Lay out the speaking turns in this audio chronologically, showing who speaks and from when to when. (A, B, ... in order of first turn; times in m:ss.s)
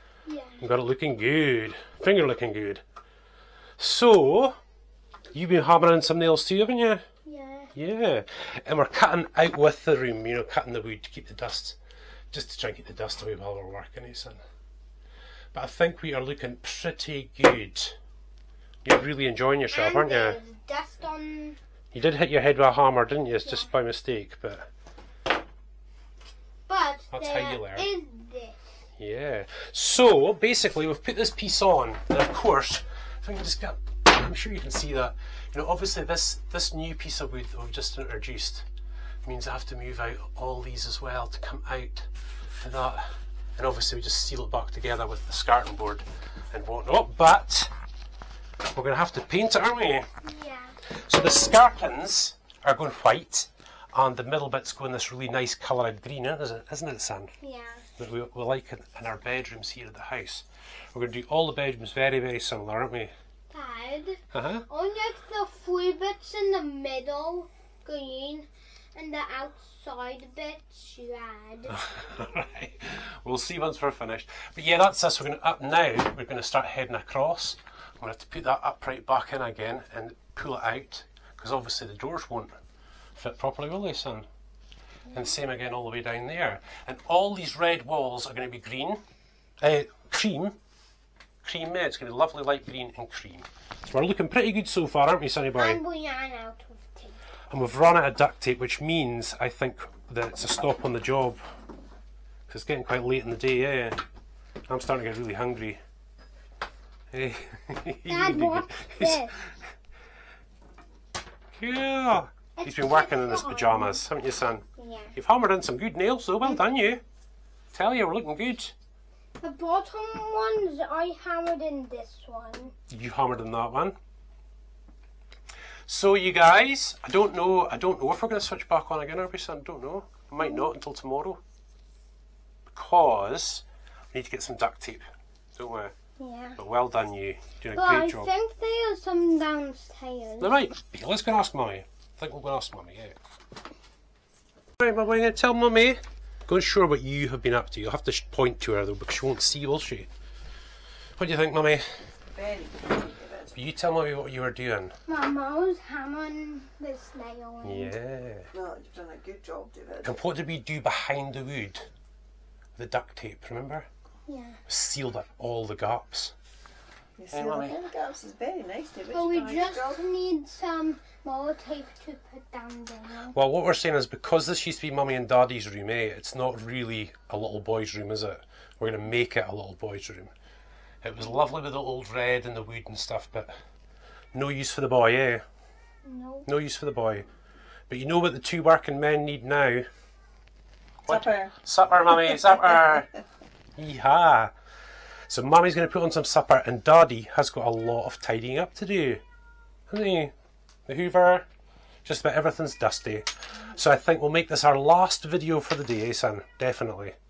0:00.2-0:00.6 A
0:00.6-0:02.8 B
0:03.8-0:04.6 B
0:05.3-0:07.0 B
0:07.2-0:07.7 A
0:07.7-0:11.8 B
0:12.3-0:14.4 B
0:15.5-0:18.0 B
0:18.8-0:20.4 B
0:19.7-0:21.6 A
0:21.9-0:24.7 B
0:26.7-0:28.6 A
0:27.1-0:27.9 B
0:29.0-0:38.6 B
0:39.2-0:43.0 B
0:43.6-0:47.7 B
0:48.7-0:50.1 B
0:50.2-0:50.8 A
0:50.9-0:57.3 B
0:57.4-0:57.8 A
0:58.0-1:03.1 B
1:03.5-1:11.8 A
1:04.3-1:04.6 B
1:11.7-1:22.5 B
1:23.2-1:24.2 B
1:25.1-1:29.0 B
1:29.6-1:30.6 B
1:31.4-1:35.8 B
1:35.5-1:37.2 A
1:37.5-1:41.4 B
1:42.5-1:44.0 B
1:44.7-1:45.8 B
1:47.1-1:49.6 B
1:48.1-1:49.3 A
1:51.6-1:54.6 B
1:52.6-1:54.0 A
1:54.8-1:55.2 A
1:55.2-1:57.0 B
1:57.7-1:58.7 B
1:59.4-2:02.7 A
2:02.9-2:04.0 B
2:05.9-2:11.4 B
2:10.4-2:10.7 A
2:12.7-2:15.9 B
2:16.2-2:16.6 A
2:16.6-2:18.3 B
2:17.7-2:20.6 A
2:20.4-2:23.2 B
2:24.8-2:30.1 B
2:31.2-2:31.8 B
2:32.3-2:33.5 C
2:33.5-2:34.9 B
2:35.0-2:37.9 A
2:37.6-2:38.5 B
2:38.5-2:40.1 C
2:40.0-2:41.9 B
2:42.8-2:43.9 B
2:44.3-2:44.6 A
2:44.7-2:46.3 B
2:47.2-2:50.0 C
2:47.3-2:47.8 B
2:49.1-2:53.3 A
2:53.3-3:00.3 B
3:01.0-3:03.5 B
3:04.3-3:05.4 B
3:06.0-3:06.5 A
3:06.4-3:07.2 B
3:07.9-3:09.9 B
3:11.0-3:13.1 B
3:11.1-3:11.5 C
3:13.8-3:14.5 B
3:15.3-3:19.2 B
3:19.9-3:20.3 B
3:20.9-3:21.4 B
3:22.0-3:27.1 B